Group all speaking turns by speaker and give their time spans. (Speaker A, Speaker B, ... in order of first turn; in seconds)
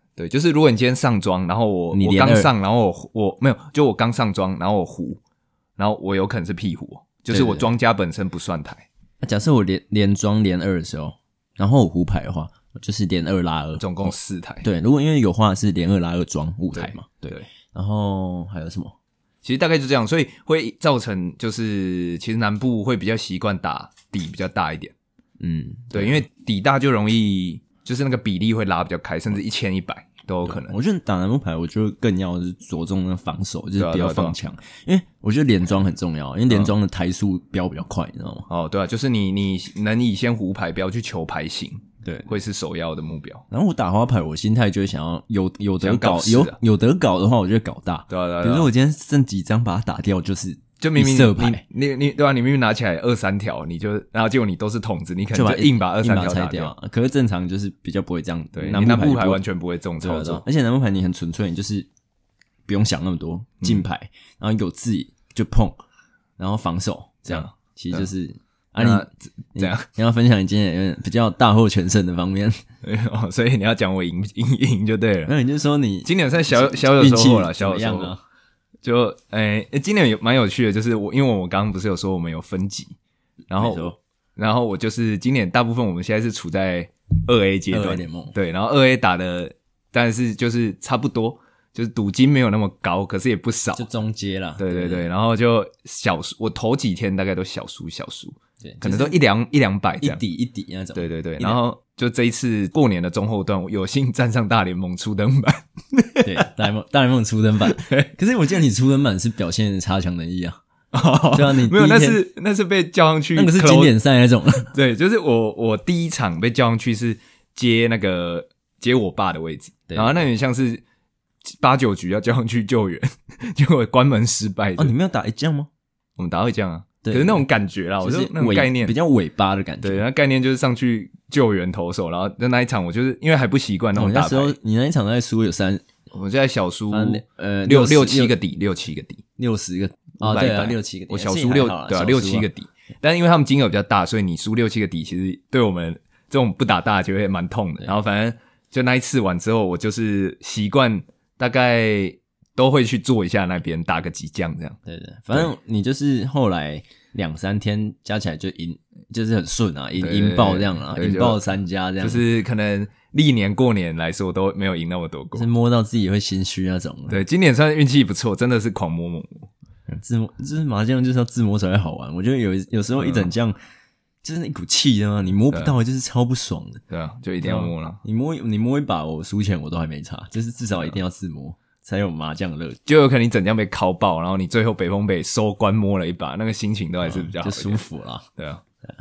Speaker A: 0.2-5.2, 5.8-8.9, 13.8-14.7, 16.8-17.4, 19.4-24.9, 25.9-30.8, 33.8-34.4, 38.5-43.5, 45.8-46.6, 48.1-48.7, 50.8-56.7, 58.5-60.4, 67.3-68.1, 68.8-69.9, 72.8-75.3, 76.0-78.1, 78.8-83.0, 83.5-93.9, 94.6-100.2, 101.0-106.3, 107.7-108.1, 110.9-114.0, 114.7-120.8, 121.5-124.9, 126.2-128.9, 129.8-134.6, 136.1-139.2, 140.2-154.8, 160.0-161.4, 162.0-165.5, 167.1-169.5, 173.0-173.3, 176.9-178.0, 182.9-187.8, 188.4-188.6
Speaker B: 1.9-2.5, 7.3-7.7, 9.2-18.9, 25.4-26.3, 30.5-38.5, 42.0-42.3, 43.5-51.6, 55.3-59.4, 60.0-61.9, 62.7-65.8, 66.4-72.6, 75.3-78.2, 83.5-84.0, 87.7-88.3, 93.8-95.1, 98.6-99.2, 100.0-101.6, 106.2-110.6, 111.3-112.2, 113.4-114.7, 119.9-120.2, 124.8-125.7, 127.0-127.5, 128.0-130.0, 134.0-135.8, 136.9-138.3, 139.4-142.5, 154.9-162.2, 165.3-167.2, 169.9-173.6, 174.2-176.8, 177.4-182.8, 187.1-188.3